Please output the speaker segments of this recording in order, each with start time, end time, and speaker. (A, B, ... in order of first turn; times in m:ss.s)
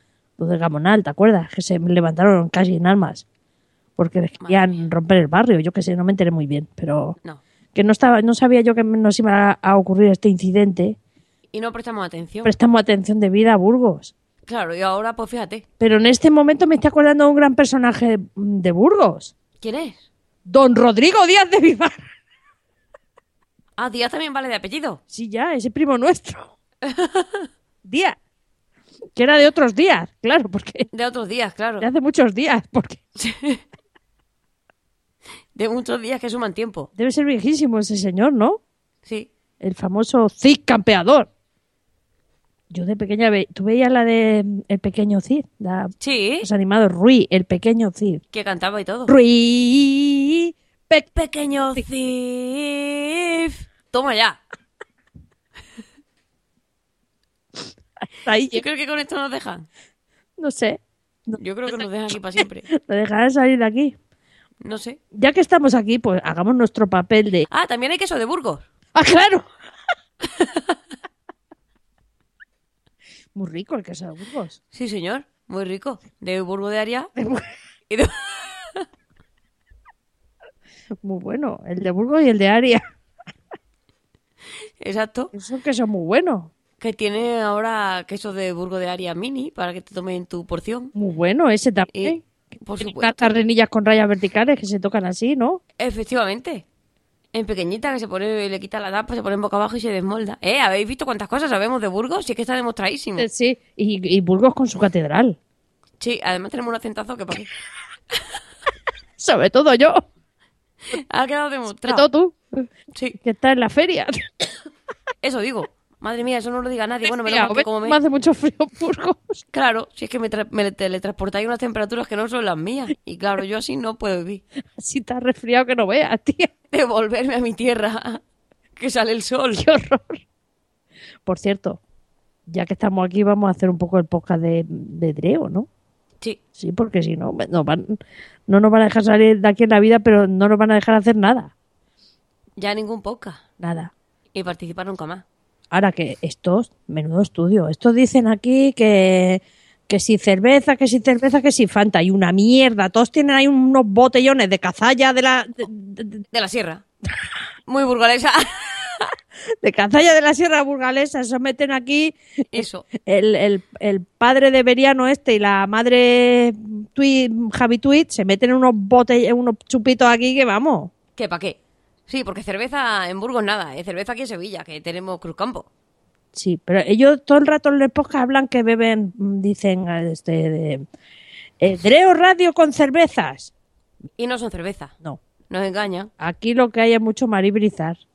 0:00.4-0:03.2 A
0:04.0-0:07.2 A
0:04.4-0:04.8 B
0:07.8-0:11.0 A
0:11.5-0:12.5 B
0:12.4-0:14.1 A
0:14.5-0:15.6 B
0:15.8-0:19.3 A
0:19.6-0:20.0 B
0:20.5-0:22.0 A
0:23.8-0:25.0 B
0:25.1-0:26.5 A
0:26.8-0:27.5 B
0:27.8-0:28.2 A
0:29.2-0:30.9 A
0:30.9-0:31.9 B
0:31.8-0:33.0 A
0:33.2-0:33.6 B
0:35.6-0:36.9 B
0:37.0-0:38.6 A
0:39.6-0:41.3 A
0:42.7-0:48.2 A
0:46.0-0:46.5 B
0:48.3-0:49.2 B
0:49.1-0:51.1 A
0:51.2-0:54.4 B
0:58.2-0:58.6 A
0:58.5-0:59.7 B
1:00.4-1:01.9 A
1:01.4-1:02.7 B
1:02.7-1:04.0 A
1:04.6-1:05.0 B
1:05.1-1:07.5 A
1:07.5-1:08.6 B
1:09.0-1:09.5 A
1:10.4-1:10.6 B
1:13.4-1:14.6 A
1:14.7-1:17.1 B
1:17.2-1:17.5 A
1:17.9-1:18.8 B
1:21.0-1:22.8 A
1:24.8-1:25.3 B
1:25.3-1:26.5 A
1:26.8-1:30.9 B
1:31.0-1:32.2 A
1:31.9-1:33.3 B
1:32.8-1:35.6 A
1:35.8-1:36.6 B
1:37.3-1:43.3 B
1:43.2-1:45.4 A
1:46.0-1:47.5 B
1:49.2-1:50.0 A
1:50.9-1:52.1 B
1:51.8-1:52.7 A
1:53.2-1:54.3 A
1:55.2-1:58.0 B
1:57.1-1:59.4 A
1:59.5-2:04.4 B
2:04.8-2:06.5 A
2:06.7-2:08.2 B
2:08.8-2:09.6 B
2:09.6-2:10.2 A
2:11.2-2:11.8 A
2:12.5-2:15.7 A
2:16.6-2:21.5 A
2:22.6-2:23.4 B
2:23.6-2:23.9 A
2:24.3-2:25.2 B
2:25.7-2:36.2 A
2:36.3-2:36.8 B
2:37.7-2:39.0 B
2:39.6-2:50.9 A
2:42.5-2:42.9 B
2:51.2-2:51.6 B
2:52.1-2:55.7 B
2:56.3-3:00.9 A
3:01.6-3:03.5 A
3:04.2-3:04.9 B
3:05.5-3:06.1 B
3:06.2-3:08.0 A